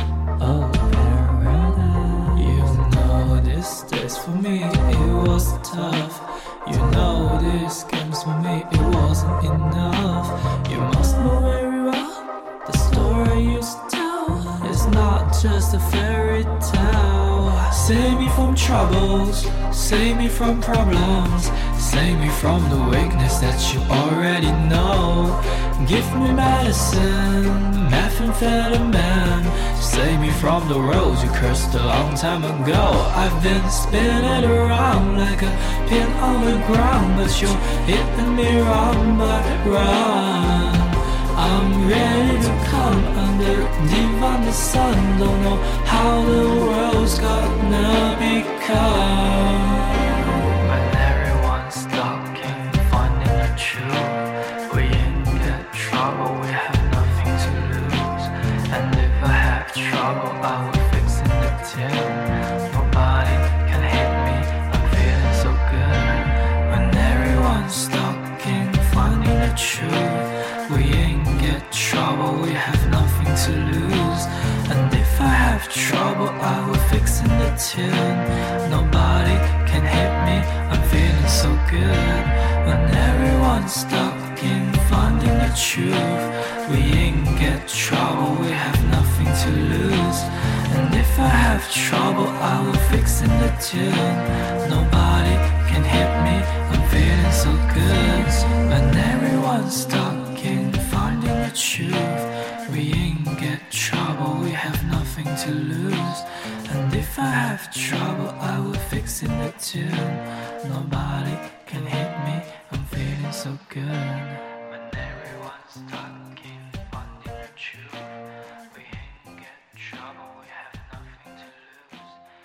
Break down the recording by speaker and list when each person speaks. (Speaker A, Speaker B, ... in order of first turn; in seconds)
Speaker A: 0.4-50.1, 50.6-118.1, 118.7-121.9